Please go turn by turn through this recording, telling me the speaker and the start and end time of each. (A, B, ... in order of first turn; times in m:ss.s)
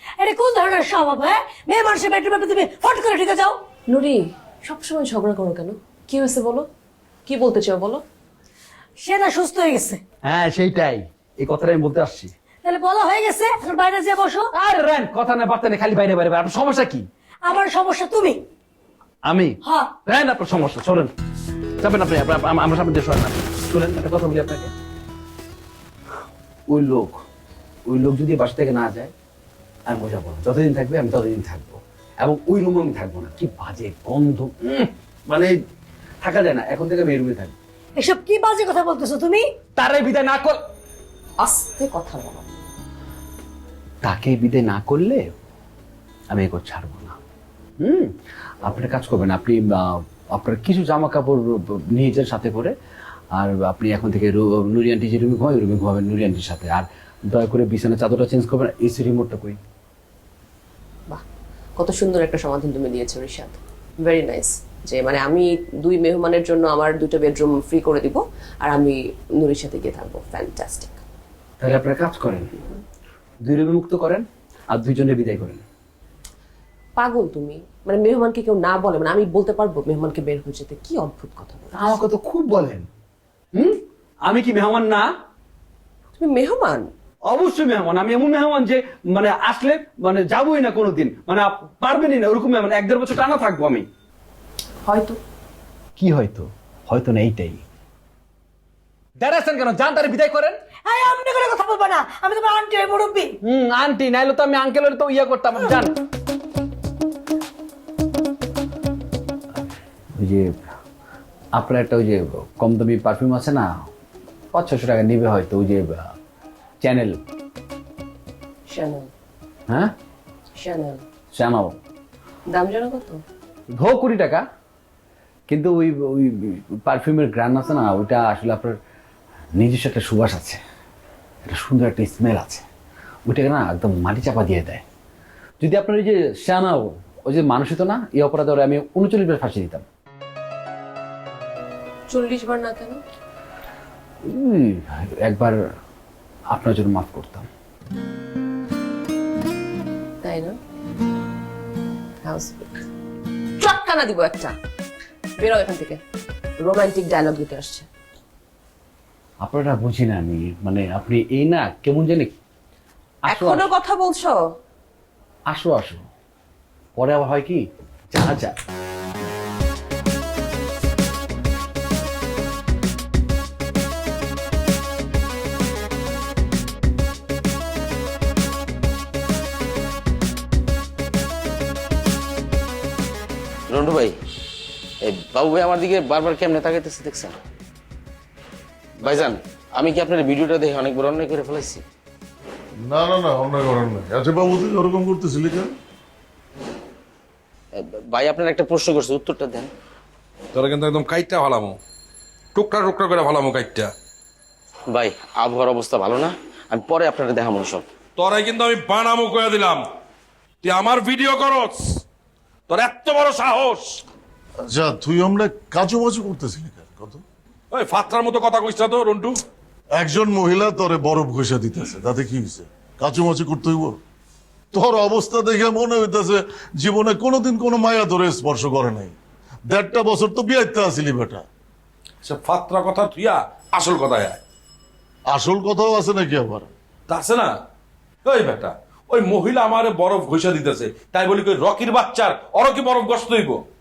0:00.2-0:03.6 A
0:03.9-0:06.7 B
0:07.2-0:08.0 B
0:09.0-0:10.0 A
0:10.2-0:12.3 C
0:12.6-0:14.5 A
0:14.5-0:17.0 C
0:17.4-0:18.4 A
0:19.2-0:21.1 C
0:19.6-0:19.9 A
0:21.8-0:24.7 C
0:26.7-0:27.2 C
0:27.9-0:29.1 C
0:29.9-0:35.5 C
0:36.2-0:37.6 C
0:38.0-0:39.4 A
0:39.8-0:40.6 C
0:41.4-0:42.6 B
0:44.0-0:45.3 C
0:46.3-0:47.2 C
0:47.8-0:52.7 C
0:53.4-0:59.6 C
1:01.8-1:11.0 B
1:11.6-1:12.7 C
1:13.4-1:15.6 C
1:17.0-1:22.0 B
1:21.7-1:22.9 C
1:23.6-1:25.1 C
1:26.1-1:26.9 B
1:27.3-1:33.9 C
1:34.8-1:35.2 B
1:36.0-1:37.6 C
1:39.2-1:40.6 C
1:40.8-1:43.3 A
1:43.4-1:45.9 C
1:50.2-1:50.5 C
1:51.5-1:53.9 C
1:54.5-1:56.1 C
1:56.8-1:57.2 C
1:58.7-1:59.1 B
2:00.6-2:01.0 B
2:01.3-2:01.8 C
2:02.4-2:03.2 B
2:03.7-2:04.4 C
2:05.5-2:08.8 C
2:09.6-2:10.6 C
2:11.4-2:12.6 C
2:13.3-2:14.8 C
2:15.6-2:19.8 C
2:22.1-2:23.0 B
2:24.2-2:25.6 C
2:26.5-2:27.5 C
2:30.2-2:30.6 B
2:32.2-2:32.8 B
2:33.6-2:34.6 B
2:35.4-2:36.0 B
2:36.6-2:37.9 B
2:39.4-2:42.3 C
2:43.2-2:43.7 C
2:43.2-2:44.4 B
2:45.5-2:46.0 C
2:47.0-2:48.5 C
3:03.7-3:04.2 D
3:05.0-3:07.4 D
3:09.0-3:11.8 D
3:12.8-3:15.7 E
3:17.7-3:19.7 D
3:20.5-3:21.8 F
3:22.5-3:23.9 F
3:24.9-3:27.8 D
3:28.2-3:29.8 F
3:30.6-3:32.0 F
3:32.7-3:34.0 F
3:34.7-3:37.2 E
3:37.7-3:39.4 F
3:39.9-3:44.0 E
3:44.7-3:49.2 E
3:49.7-3:51.4 E
3:52.2-3:54.4 F
3:55.3-3:56.7 E
3:57.1-3:57.5 F
3:58.2-4:03.6 F